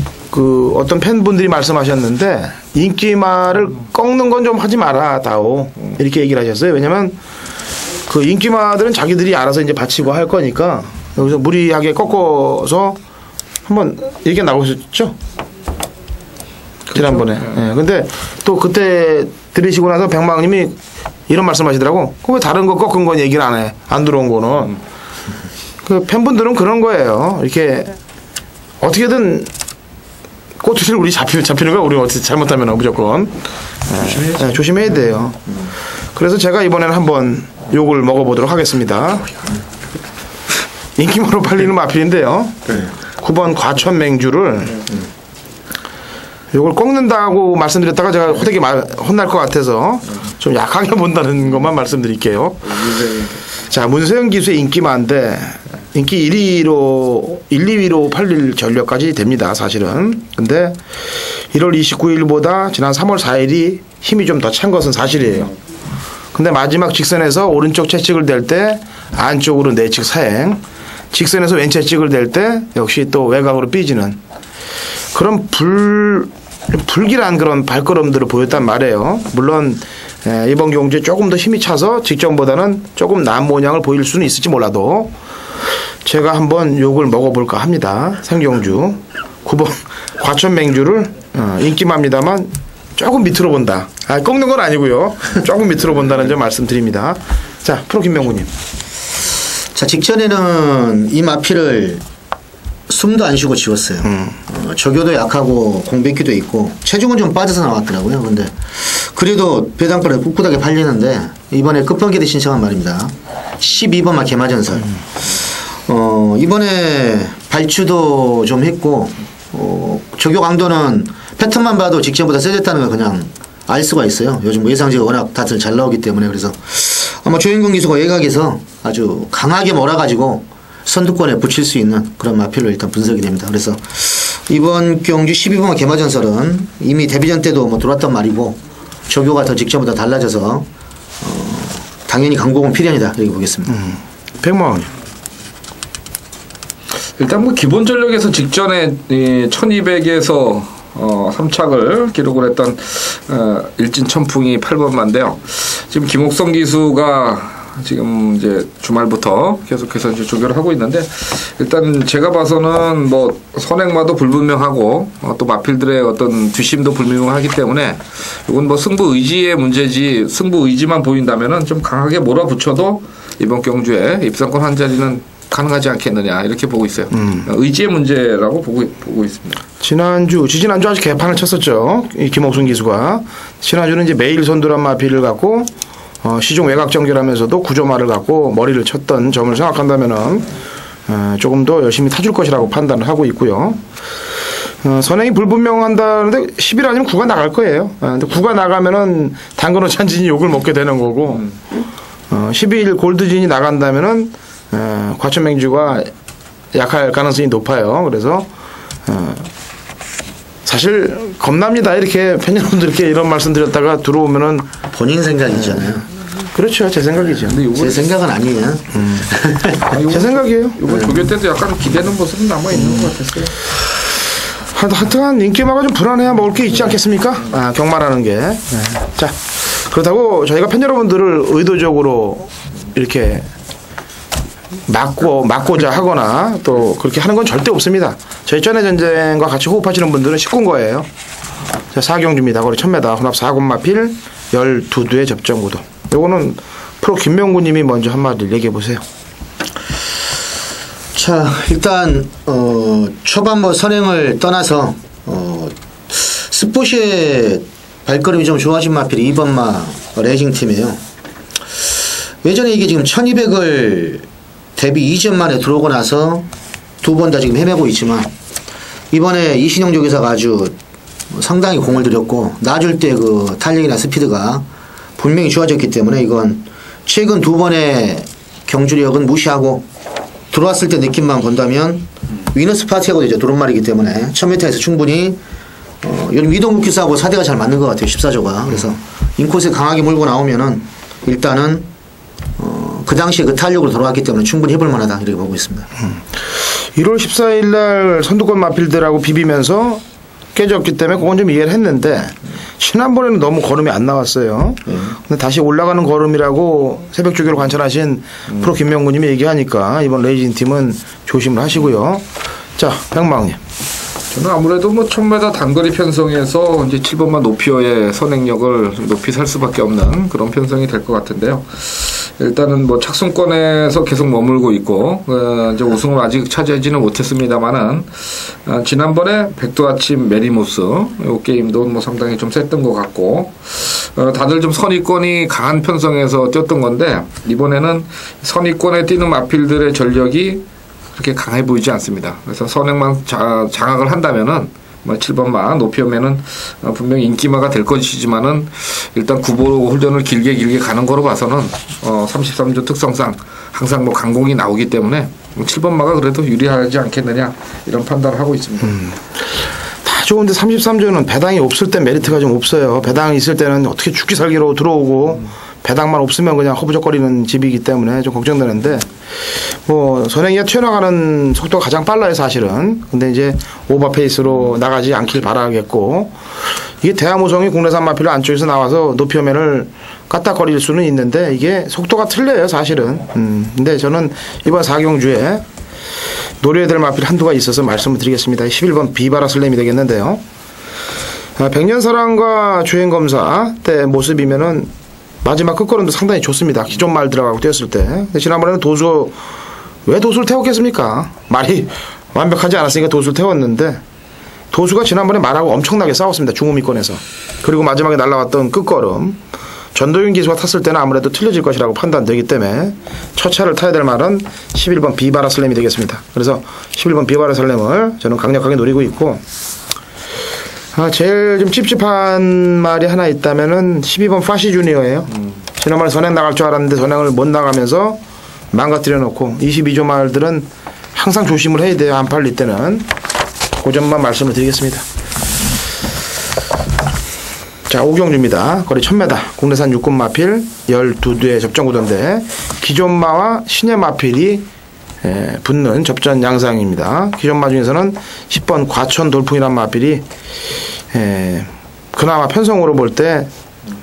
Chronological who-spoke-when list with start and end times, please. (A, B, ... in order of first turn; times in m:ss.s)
0:00.3-0:07.2 A
0:08.1-0:13.0 A
0:13.6-0:15.2 A
0:16.9-0:24.8 A
0:25.8-0:28.0 A
0:28.8-0:29.5 A
0:30.6-0:35.4 A
0:36.1-0:39.4 A
0:41.0-0:44.8 A
0:46.5-0:53.0 A
0:53.7-1:05.5 A
1:06.3-1:14.2 A
1:15.1-1:25.1 A
1:26.0-1:38.5 A
1:39.7-1:42.0 B
1:42.9-2:20.7 B
1:44.0-1:44.4 A
2:21.2-2:23.8 B
2:23.7-2:24.9 A
2:27.2-2:59.6 C
2:57.1-2:57.4 A
2:59.8-3:05.7 A
3:06.2-3:10.5 A
3:11.1-3:13.8 A
3:14.8-3:21.5 A
3:22.3-3:26.1 A
3:26.7-3:28.5 A
3:29.0-3:29.5 A
3:30.6-3:34.7 A
3:34.9-3:36.1 B
3:35.5-3:35.9 A
3:36.5-3:37.6 A
3:37.4-3:38.0 C
3:37.7-3:39.8 B
3:38.9-3:39.3 A
3:39.8-3:43.6 C
3:40.1-3:40.8 A
3:40.9-3:41.1 B
3:44.7-3:53.5 A
3:54.9-4:01.1 A
4:01.9-4:09.0 A
4:11.1-4:21.0 B
4:22.4-4:26.5 B
4:27.0-4:28.3 B
4:29.1-4:30.8 B
4:31.3-4:34.6 B
4:35.2-4:39.9 B
4:40.5-4:45.4 B
4:46.0-4:51.9 B
4:52.6-4:55.9 B
4:56.0-5:00.0 A
5:00.5-5:12.2 A
5:04.9-5:05.1 B
5:12.8-5:13.6 A
5:14.3-5:40.6 C
5:41.1-5:59.0 C
6:00.0-6:16.4 A
6:17.0-6:25.6 A
6:26.6-6:30.4 A
6:31.6-6:34.9 A
6:35.4-6:39.3 A
6:40.0-6:44.0 A
6:44.7-6:49.4 A
6:49.9-6:59.4 A
7:00.9-7:08.2 A
7:08.7-7:13.1 A
7:13.8-7:15.0 A
7:17.9-7:24.6 A
7:25.2-7:30.2 A
7:31.1-7:33.5 A